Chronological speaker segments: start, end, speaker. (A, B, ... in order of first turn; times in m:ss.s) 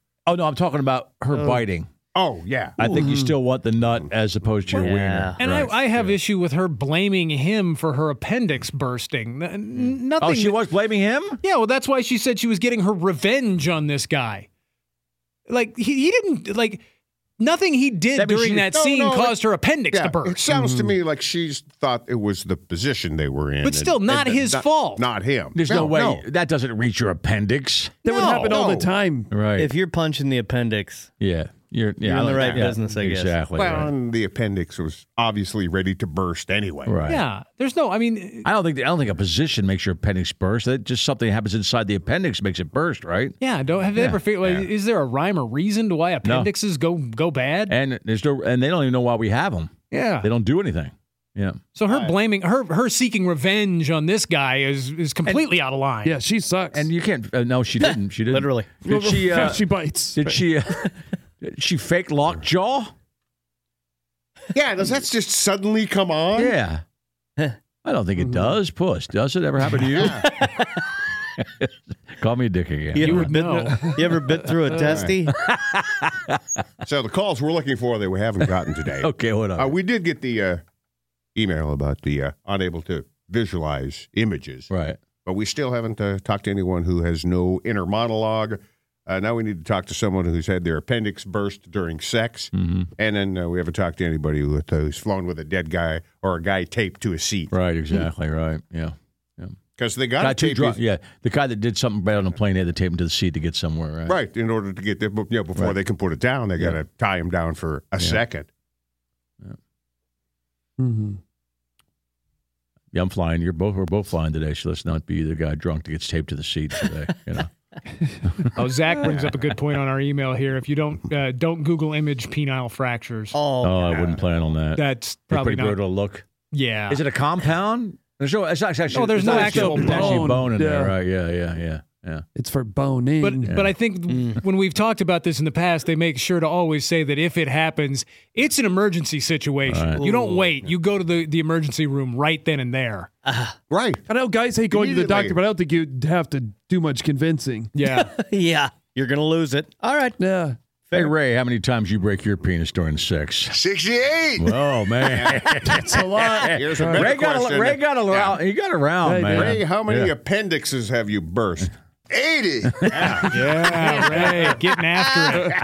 0:00.2-0:01.9 A
0:02.1-0:02.8 B
0:02.8-0:06.2 A
0:02.9-0:03.3 C
0:04.7-0:05.4 D
0:05.4-0:10.6 E
0:10.2-0:11.4 A
0:11.4-0:14.5 E
0:15.5-0:16.8 E
0:17.4-0:20.4 E
0:18.2-0:18.7 A
0:18.7-0:19.4 B
0:19.9-0:26.2 B
0:20.5-0:21.0 C
0:23.6-0:25.0 E
0:25.5-0:28.0 A
0:28.0-0:29.3 C
0:28.0-0:28.6 E
0:28.4-0:28.9 B
0:29.3-0:29.7 A
0:29.6-0:31.1 D
0:31.2-0:33.9 A
0:32.0-0:33.4 D
0:32.2-0:32.7 B
0:33.5-0:37.0 B
0:36.8-0:37.2 A
0:37.1-0:38.5 E
0:38.4-0:43.4 A
0:43.4-0:47.7 E
0:43.9-0:44.2 A
0:46.2-0:46.5 A
0:47.7-0:51.6 A
0:49.9-0:50.3 E
0:51.7-0:56.1 E
0:51.9-0:52.1 B
0:56.0-0:56.9 C
0:56.7-1:02.9 A
0:57.8-0:58.7 D
0:58.8-1:00.4 C
1:04.5-1:06.6 B
1:06.3-1:06.8 A
1:07.8-1:10.5 A
1:08.2-1:08.5 C
1:09.9-1:10.3 B
1:11.4-1:13.3 A
1:12.9-1:15.4 D
1:13.0-1:13.9 E
1:13.5-1:15.0 C
1:14.8-1:15.1 B
1:15.4-1:16.4 A
1:16.8-1:20.6 B
1:19.0-1:19.7 A
1:21.3-1:24.7 B
1:24.7-1:25.0 A
1:25.2-1:37.5 B
1:32.5-1:32.9 A
1:37.5-1:39.5 A
1:39.8-1:40.8 B
1:40.2-1:44.2 A
1:44.1-1:48.5 B
1:50.8-1:51.2 C
1:52.9-1:57.5 A
1:58.2-1:58.5 A
1:58.5-2:03.4 E
2:03.3-2:04.1 D
2:03.6-2:06.2 A
2:03.9-2:04.2 B
2:04.8-2:05.8 E
2:06.5-2:07.0 E
2:06.9-2:12.2 A
2:08.9-2:10.3 E
2:09.2-2:10.9 C
2:12.3-2:13.5 C
2:13.2-2:23.1 E
2:13.5-2:13.7 A
2:14.1-2:14.4 D
2:19.7-2:20.0 A
2:20.0-2:20.6 D
2:23.2-2:23.6 D
2:23.7-2:24.0 B
2:24.1-2:27.7 C
2:24.7-2:25.4 B
2:27.7-2:28.1 E
2:27.8-2:30.2 D
2:30.2-2:30.6 C
2:30.9-2:33.5 A
2:33.5-2:34.6 F
2:34.4-2:40.1 A
2:35.1-2:35.8 B
2:35.6-2:37.1 C
2:36.3-2:38.4 B
2:39.0-2:39.6 C
2:39.3-2:41.7 B
2:42.1-2:43.3 F
2:42.7-2:43.1 A
2:42.9-2:43.3 B
2:43.3-2:45.5 E
2:43.9-2:44.3 B